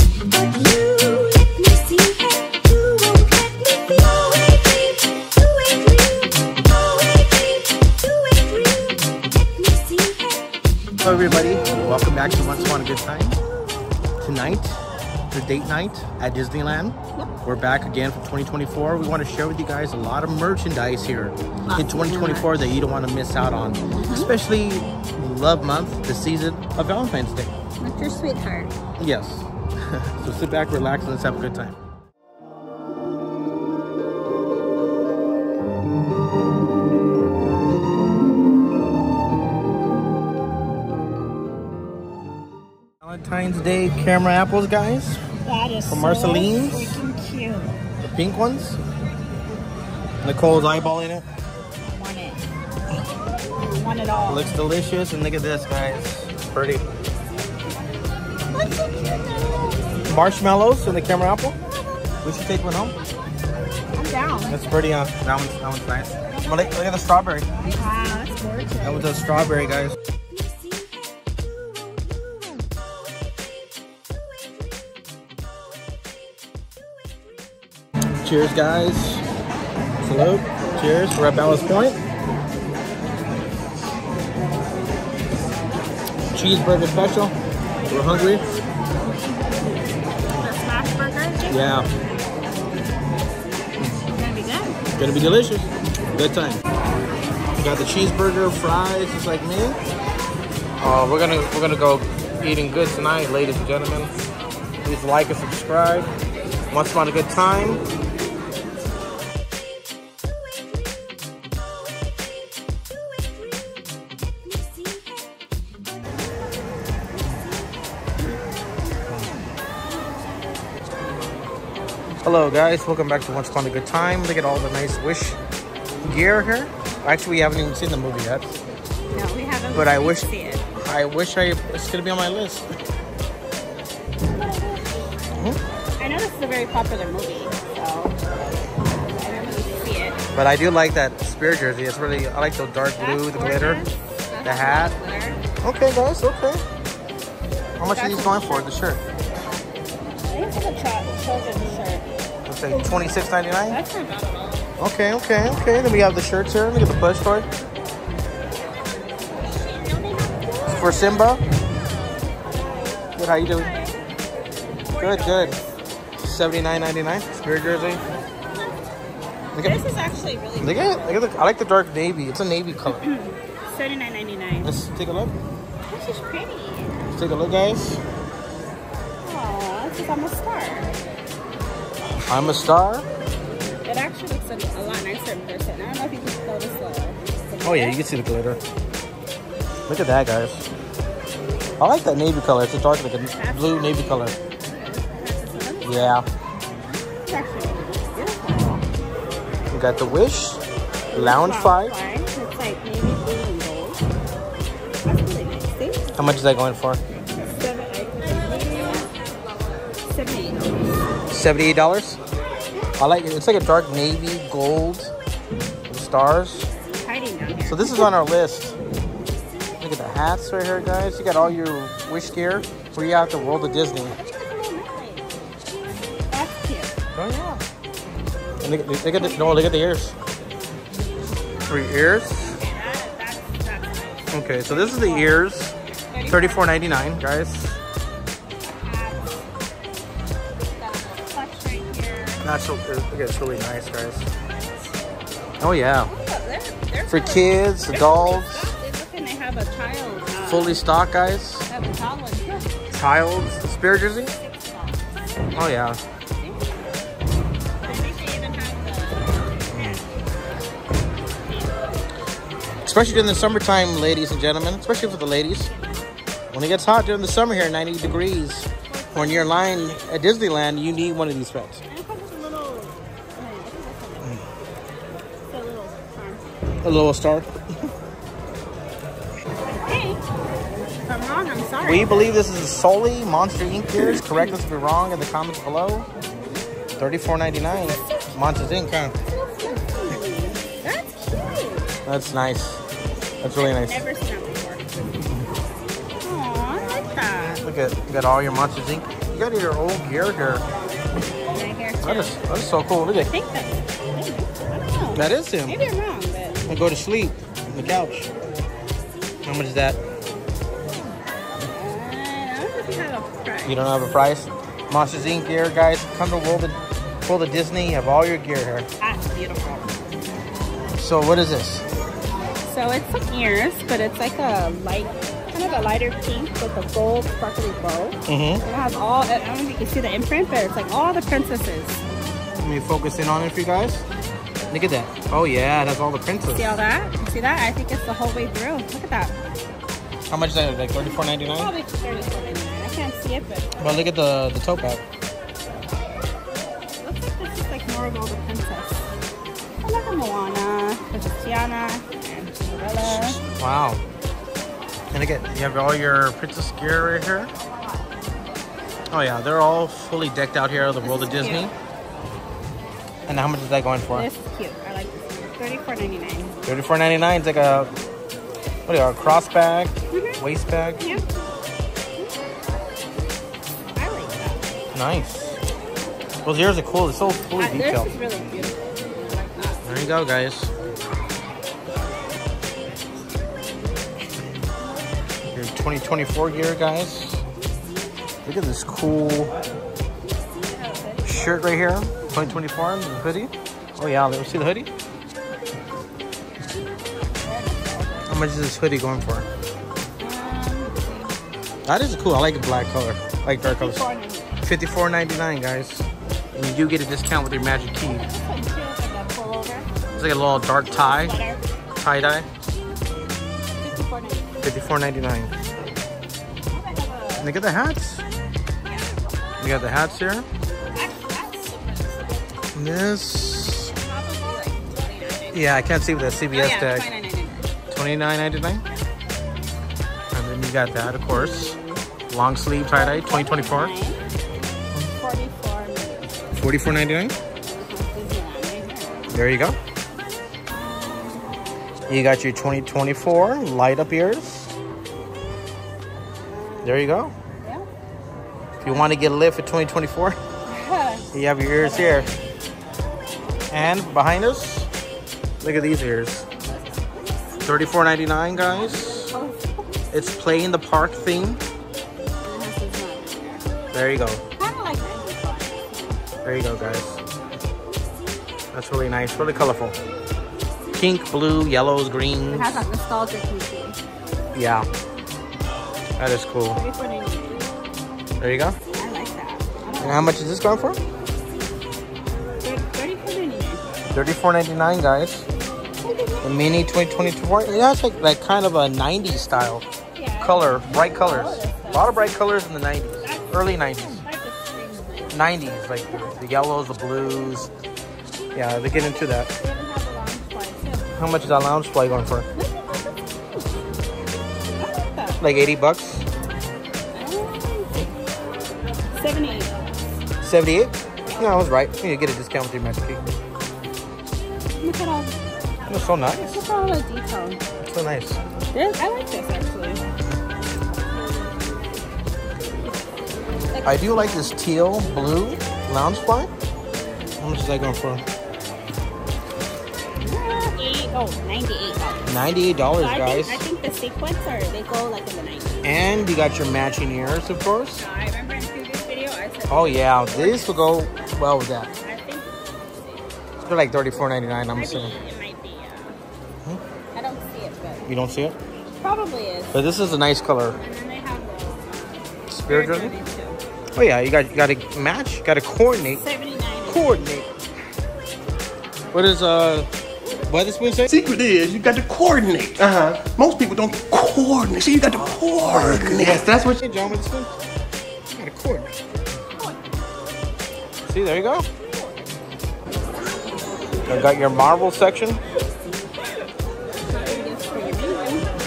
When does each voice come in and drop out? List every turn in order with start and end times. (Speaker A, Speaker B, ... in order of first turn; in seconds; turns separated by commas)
Speaker A: 0.3-4.0, Speaker B: 11.0-13.4, Speaker B: 14.2-14.8, Speaker B: 15.3-27.5, Speaker A: 21.6-22.6, Speaker A: 23.9-24.3, Speaker A: 27.8-28.7, Speaker B: 29.0-31.8, Speaker B: 43.0-45.2, Speaker A: 45.4-47.8, Speaker B: 45.9-47.0, Speaker B: 48.0-48.8, Speaker B: 50.2-51.2, Speaker A: 51.9-52.4, Speaker A: 53.5-54.5, Speaker B: 54.3-56.8, Speaker B: 60.1-61.5, Speaker B: 62.2-62.9, Speaker A: 63.9-64.6, Speaker B: 64.5-67.5, Speaker A: 66.3-66.8, Speaker A: 67.7-69.2, Speaker B: 68.8-70.0, Speaker B: 78.2-79.2, Speaker B: 80.0-82.0, Speaker B: 86.3-87.3, Speaker A: 87.7-88.7, Speaker B: 87.9-88.4, Speaker A: 90.3-91.7, Speaker B: 91.5-91.9, Speaker A: 94.1-94.8, Speaker B: 95.0-96.6, Speaker B: 97.6-99.8, Speaker B: 100.8-104.1, Speaker B: 104.8-106.1, Speaker B: 106.7-107.8, Speaker B: 122.2-125.4, Speaker B: 126.0-128.5, Speaker A: 129.1-130.6, Speaker B: 129.7-132.7, Speaker A: 134.3-134.9, Speaker A: 136.0-138.2, Speaker A: 139.2-140.2, Speaker B: 140.3-143.8, Speaker A: 143.0-145.4, Speaker B: 144.4-144.9, Speaker B: 145.6-146.6, Speaker B: 147.8-149.0, Speaker A: 147.9-148.7, Speaker A: 150.3-152.1, Speaker B: 152.4-153.8, Speaker A: 153.7-154.7, Speaker B: 154.8-157.5, Speaker A: 159.5-161.6, Speaker B: 160.7-161.4, Speaker B: 163.2-163.7, Speaker A: 163.3-164.0, Speaker A: 164.9-165.7, Speaker B: 165.0-165.6, Speaker B: 166.2-168.0, Speaker B: 169.5-169.8, Speaker A: 169.6-171.2, Speaker B: 170.6-173.0, Speaker A: 172.9-174.7, Speaker B: 174.6-175.3, Speaker A: 175.9-177.0, Speaker B: 177.1-178.0, Speaker A: 179.2-180.9, Speaker B: 182.3-183.1, Speaker A: 183.8-188.0, Speaker B: 187.6-188.6, Speaker B: 189.9-190.7, Speaker B: 191.8-194.3, Speaker A: 193.3-196.2, Speaker B: 195.8-196.2, Speaker A: 197.1-198.8, Speaker B: 199.7-200.6, Speaker B: 201.1-201.9, Speaker A: 201.1-204.0, Speaker A: 205.0-206.1, Speaker B: 206.1-207.0, Speaker A: 207.4-209.1, Speaker A: 210.0-211.0, Speaker B: 211.3-212.2, Speaker B: 213.0-215.1, Speaker B: 215.9-216.7, Speaker A: 216.9-218.1, Speaker B: 217.7-218.8, Speaker B: 219.8-224.1, Speaker A: 223.4-225.3, Speaker A: 226.3-226.9, Speaker B: 227.1-227.6, Speaker B: 228.6-230.2, Speaker A: 229.2-229.7, Speaker B: 231.7-232.6, Speaker A: 232.4-235.4, Speaker B: 234.3-237.8, Speaker A: 236.1-236.8, Speaker A: 238.6-239.4, Speaker A: 240.8-242.4, Speaker B: 242.4-244.3, Speaker B: 245.6-246.1, Speaker A: 246.0-250.8, Speaker B: 247.1-248.7, Speaker B: 250.4-251.7, Speaker A: 251.7-252.8, Speaker B: 252.9-254.3, Speaker A: 254.1-255.5, Speaker B: 255.5-256.0, Speaker A: 256.4-256.8, Speaker A: 257.8-260.1, Speaker B: 259.7-260.0, Speaker B: 262.8-265.7, Speaker A: 265.8-266.0, Speaker B: 266.5-271.8, Speaker A: 268.9-269.9, Speaker A: 271.9-274.4, Speaker A: 275.5-276.6, Speaker B: 276.8-277.5, Speaker A: 279.7-280.2, Speaker A: 281.1-282.3, Speaker B: 281.8-286.1, Speaker A: 284.0-284.6, Speaker B: 287.0-289.1, Speaker A: 287.7-288.3, Speaker A: 289.3-291.9, Speaker B: 292.0-292.8, Speaker B: 293.4-294.0, Speaker A: 293.5-295.0, Speaker A: 296.2-297.6, Speaker B: 297.4-300.6, Speaker A: 301.5-302.4, Speaker B: 302.0-303.3, Speaker A: 303.1-306.6, Speaker B: 305.1-305.8, Speaker B: 306.7-308.3, Speaker B: 309.4-310.0, Speaker A: 311.6-313.9, Speaker B: 313.6-318.9, Speaker A: 319.0-319.9, Speaker B: 321.0-321.8, Speaker A: 322.6-332.0, Speaker B: 328.3-328.6, Speaker B: 332.6-334.0, Speaker B: 334.7-336.8, Speaker A: 336.5-339.4, Speaker B: 340.3-341.7, Speaker A: 341.4-343.7, Speaker B: 343.8-345.0, Speaker A: 347.0-349.2, Speaker A: 349.8-353.4, Speaker B: 353.0-354.0, Speaker B: 355.1-357.5, Speaker B: 359.1-361.7, Speaker A: 361.0-361.7, Speaker B: 363.3-364.3, Speaker A: 364.1-366.6, Speaker B: 366.6-367.9, Speaker B: 368.9-371.0, Speaker A: 370.1-370.4, Speaker A: 371.0-371.3, Speaker A: 373.9-374.7, Speaker B: 374.9-375.6, Speaker B: 376.4-378.1, Speaker A: 377.6-379.9, Speaker B: 379.8-380.7, Speaker B: 385.5-387.4, Speaker B: 388.4-389.5, Speaker A: 390.4-391.7, Speaker B: 391.2-394.9, Speaker A: 397.3-398.3, Speaker B: 398.3-399.5, Speaker A: 400.2-401.2, Speaker B: 401.9-404.0, Speaker A: 403.6-404.6, Speaker B: 404.6-408.3, Speaker A: 408.0-409.9, Speaker B: 410.2-411.4, Speaker A: 410.9-411.6, Speaker B: 412.0-412.5, Speaker A: 413.8-414.5, Speaker B: 414.6-415.5, Speaker A: 416.7-417.5, Speaker B: 417.4-418.2, Speaker A: 418.8-420.0, Speaker B: 419.6-420.4, Speaker A: 420.9-422.6, Speaker B: 422.7-423.9, Speaker A: 423.9-425.8, Speaker B: 425.5-427.1, Speaker A: 426.5-427.7, Speaker B: 427.9-428.8, Speaker B: 430.3-431.8, Speaker A: 431.3-432.0, Speaker B: 432.3-434.0, Speaker A: 432.9-434.2, Speaker A: 435.0-436.4, Speaker B: 436.5-437.3, Speaker A: 437.6-439.3, Speaker B: 439.3-439.8, Speaker A: 441.0-441.3, Speaker B: 442.1-444.7, Speaker A: 446.5-447.1, Speaker B: 446.8-447.3, Speaker A: 447.6-447.9, Speaker B: 448.8-450.4, Speaker A: 448.8-449.1, Speaker A: 450.7-452.3, Speaker B: 451.3-452.3, Speaker B: 453.7-454.9, Speaker B: 455.6-456.4, Speaker A: 456.9-457.7, Speaker B: 457.6-459.3, Speaker A: 458.7-460.0, Speaker B: 460.1-461.6, Speaker A: 462.4-463.6, Speaker B: 463.9-464.4, Speaker A: 464.6-466.2, Speaker B: 466.4-467.2, Speaker B: 468.7-469.9, Speaker B: 470.9-472.9, Speaker A: 472.5-474.0, Speaker B: 474.5-474.9, Speaker B: 476.2-476.8, Speaker A: 476.7-477.7, Speaker B: 478.4-478.8, Speaker A: 478.9-480.4, Speaker B: 480.0-481.0, Speaker A: 482.6-483.9, Speaker B: 484.1-485.4, Speaker A: 486.0-486.8, Speaker B: 486.4-489.9, Speaker A: 490.1-492.4, Speaker B: 490.4-494.2, Speaker A: 493.2-495.5, Speaker B: 495.3-497.7, Speaker B: 498.5-499.5, Speaker A: 498.9-501.1, Speaker B: 501.2-502.4, Speaker A: 502.5-503.8, Speaker A: 504.8-505.4, Speaker B: 505.4-506.2, Speaker A: 507.1-508.1, Speaker A: 509.1-509.8, Speaker B: 510.4-513.2, Speaker A: 514.8-515.4, Speaker B: 515.9-516.6, Speaker A: 516.5-517.6, Speaker B: 517.9-518.4, Speaker A: 518.7-520.0, Speaker A: 522.7-524.5, Speaker B: 523.8-526.5, Speaker B: 527.4-528.2, Speaker A: 530.2-532.3, Speaker B: 532.2-533.6, Speaker A: 532.9-536.0, Speaker B: 535.8-538.0, Speaker A: 538.0-540.9, Speaker B: 539.7-541.9, Speaker A: 542.0-543.3, Speaker B: 543.7-545.2, Speaker A: 544.7-546.1, Speaker A: 547.1-548.1, Speaker B: 548.1-548.5, Speaker A: 549.0-549.9, Speaker B: 549.7-550.8, Speaker A: 550.7-553.6, Speaker B: 552.5-553.1, Speaker B: 553.9-556.2, Speaker A: 556.0-557.4, Speaker B: 556.9-557.5, Speaker B: 559.1-559.9, Speaker B: 560.5-561.1, Speaker C: 561.1-566.7, Speaker B: 565.7-567.5, Speaker B: 568.3-569.0, Speaker B: 571.1-571.6, Speaker A: 571.7-572.4, Speaker B: 574.1-575.4, Speaker A: 577.0-578.5